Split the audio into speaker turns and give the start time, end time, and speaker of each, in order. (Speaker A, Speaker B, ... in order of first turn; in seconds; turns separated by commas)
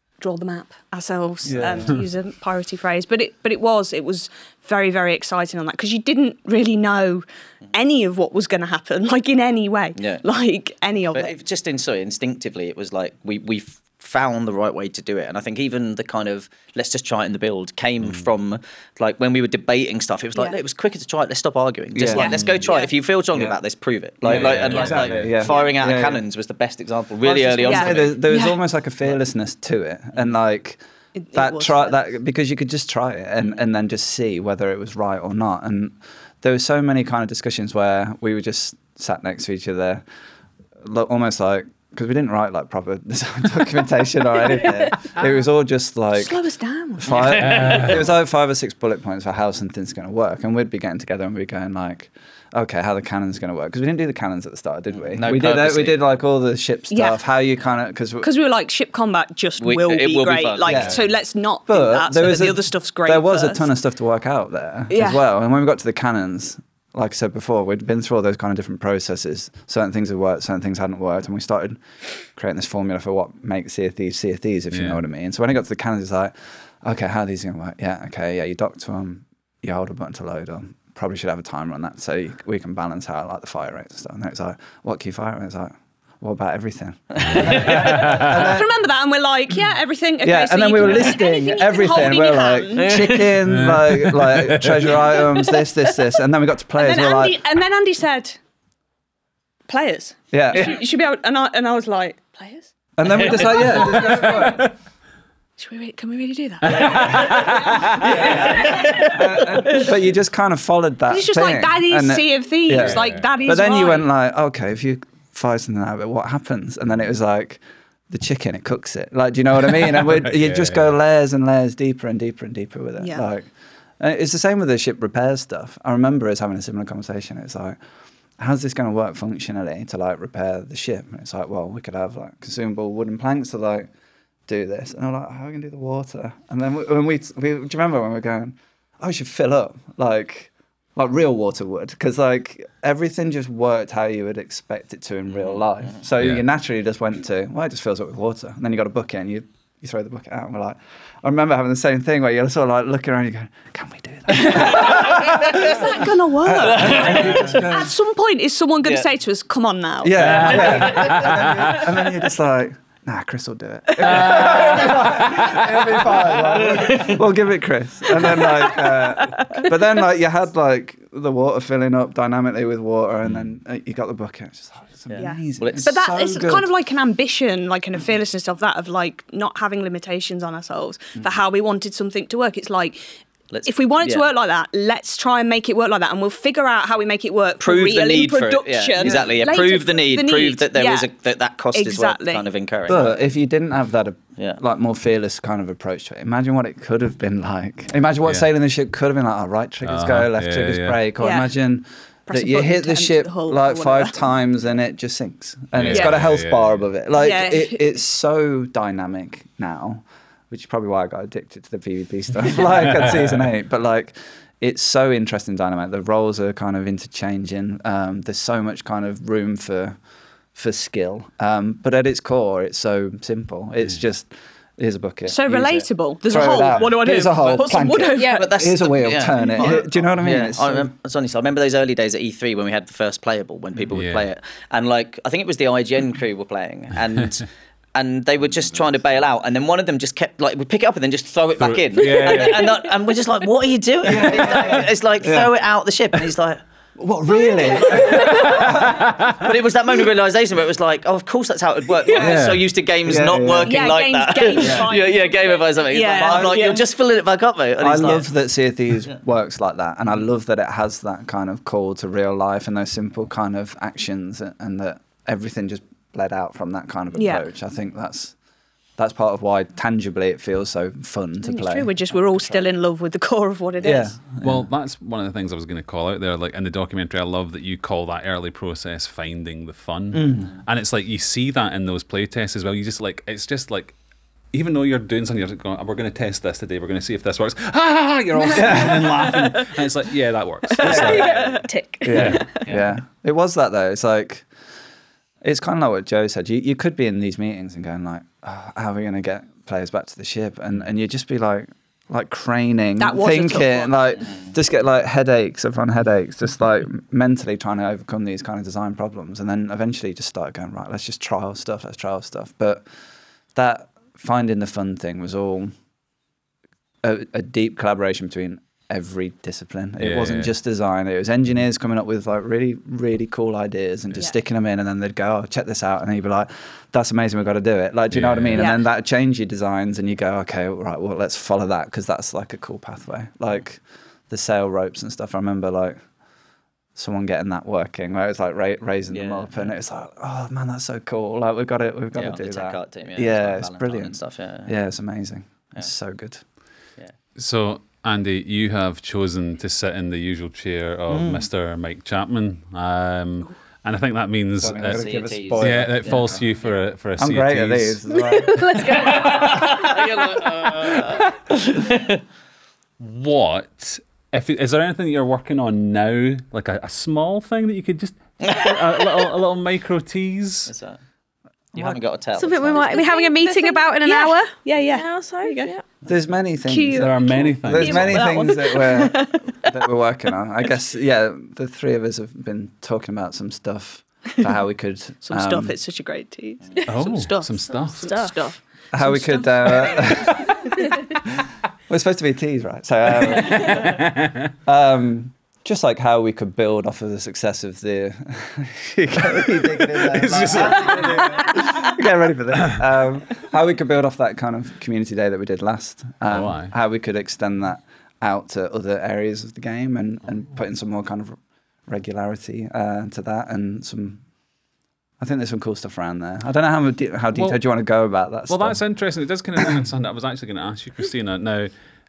Speaker A: 0.2-11.3, Speaker B: 1.4-2.0, Speaker C: 1.6-2.0, Speaker D: 9.9-10.2, Speaker D: 11.1-28.2, Speaker B: 21.9-22.3, Speaker A: 22.1-22.9, Speaker C: 22.4-22.6, Speaker B: 24.2-26.2, Speaker C: 24.3-25.4, Speaker A: 25.4-25.8, Speaker B: 27.2-30.8, Speaker A: 27.6-28.6, Speaker A: 31.1-32.0, Speaker B: 31.3-40.0, Speaker B: 40.8-46.4, Speaker A: 46.1-47.9, Speaker B: 47.0-58.3, Speaker D: 47.1-47.8, Speaker C: 47.4-48.0, Speaker D: 54.9-56.0, Speaker A: 56.9-57.2, Speaker A: 58.2-63.6, Speaker D: 59.6-60.9, Speaker B: 60.6-61.0, Speaker B: 61.7-88.7, Speaker A: 64.9-65.2, Speaker C: 74.7-75.0, Speaker D: 87.1-88.1, Speaker C: 87.3-88.3, Speaker A: 88.3-93.2, Speaker B: 90.2-97.4, Speaker D: 92.8-93.3, Speaker C: 93.4-94.8, Speaker A: 95.1-95.7, Speaker A: 96.8-98.4, Speaker A: 99.7-104.5, Speaker B: 100.3-100.8, Speaker B: 103.0-104.7, Speaker D: 103.1-103.4, Speaker C: 103.5-104.7, Speaker A: 105.6-109.9, Speaker C: 106.6-108.0, Speaker B: 108.0-127.8, Speaker D: 108.6-109.1, Speaker A: 111.1-114.1, Speaker C: 112.7-113.2, Speaker C: 120.2-120.8, Speaker A: 123.0-123.2, Speaker B: 128.4-133.9, Speaker B: 134.5-157.9, Speaker D: 145.3-146.0, Speaker A: 154.4-161.1, Speaker D: 154.8-155.7, Speaker D: 156.6-157.6, Speaker D: 158.8-159.1, Speaker B: 160.0-176.7, Speaker C: 160.3-161.8, Speaker D: 160.3-161.2, Speaker C: 164.0-165.9, Speaker A: 164.0-164.6, Speaker D: 166.3-167.2, Speaker A: 168.2-169.8, Speaker D: 175.1-175.9, Speaker A: 175.2-183.0, Speaker D: 183.5-184.3, Speaker A: 183.6-191.1, Speaker D: 187.6-193.2, Speaker B: 189.0-189.3, Speaker A: 191.7-192.5, Speaker B: 192.9-220.0, Speaker C: 199.8-201.0, Speaker A: 201.2-201.5, Speaker A: 202.3-204.2, Speaker C: 205.7-206.9, Speaker A: 205.9-206.3, Speaker A: 207.2-207.9, Speaker B: 220.5-230.9, Speaker A: 225.2-228.5, Speaker E: 228.2-228.5, Speaker D: 228.3-246.6, Speaker C: 233.9-234.2, Speaker C: 241.6-242.7, Speaker E: 242.1-242.9, Speaker B: 244.0-245.5, Speaker B: 247.0-249.0, Speaker E: 247.9-248.6, Speaker C: 249.0-249.4, Speaker D: 249.4-258.3, Speaker C: 252.2-252.6, Speaker B: 253.0-253.8, Speaker A: 253.7-256.8, Speaker B: 254.6-254.9, Speaker B: 256.2-256.6, Speaker B: 257.8-268.4, Speaker A: 267.1-267.4, Speaker B: 269.0-271.9, Speaker A: 271.4-274.2, Speaker D: 272.1-272.7, Speaker B: 273.8-274.7, Speaker C: 274.4-284.0, Speaker B: 280.1-280.5, Speaker C: 284.5-291.6, Speaker B: 288.5-289.3, Speaker A: 290.8-291.5, Speaker B: 290.8-291.2, Speaker E: 290.9-292.4, Speaker B: 292.0-294.5, Speaker C: 292.1-292.4, Speaker A: 292.2-292.6, Speaker D: 292.6-292.9, Speaker B: 295.4-312.9, Speaker A: 303.0-304.3, Speaker B: 313.5-315.7, Speaker B: 317.0-336.1, Speaker C: 320.0-320.5, Speaker C: 328.1-328.7, Speaker A: 328.6-328.8, Speaker B: 336.9-346.4, Speaker D: 339.1-339.7, Speaker D: 342.1-344.8, Speaker C: 347.4-358.0, Speaker B: 351.1-351.5, Speaker B: 354.6-356.6, Speaker D: 354.9-356.8, Speaker B: 357.1-358.8, Speaker E: 358.3-359.9, Speaker D: 359.1-362.2, Speaker C: 363.0-370.7, Speaker D: 368.4-369.3, Speaker D: 370.7-371.0, Speaker B: 371.7-372.0, Speaker D: 371.7-373.0, Speaker E: 372.4-375.8, Speaker A: 372.8-375.8, Speaker B: 376.1-385.7, Speaker A: 376.6-379.8, Speaker C: 376.9-378.4, Speaker A: 385.2-390.2, Speaker E: 386.8-387.1, Speaker C: 386.8-388.4, Speaker E: 387.7-388.4, Speaker B: 388.9-390.5, Speaker B: 391.9-394.0, Speaker C: 393.2-394.5, Speaker B: 394.6-414.3, Speaker C: 399.9-401.5, Speaker C: 406.3-406.7, Speaker B: 415.2-418.9, Speaker C: 417.3-417.6, Speaker C: 418.5-421.7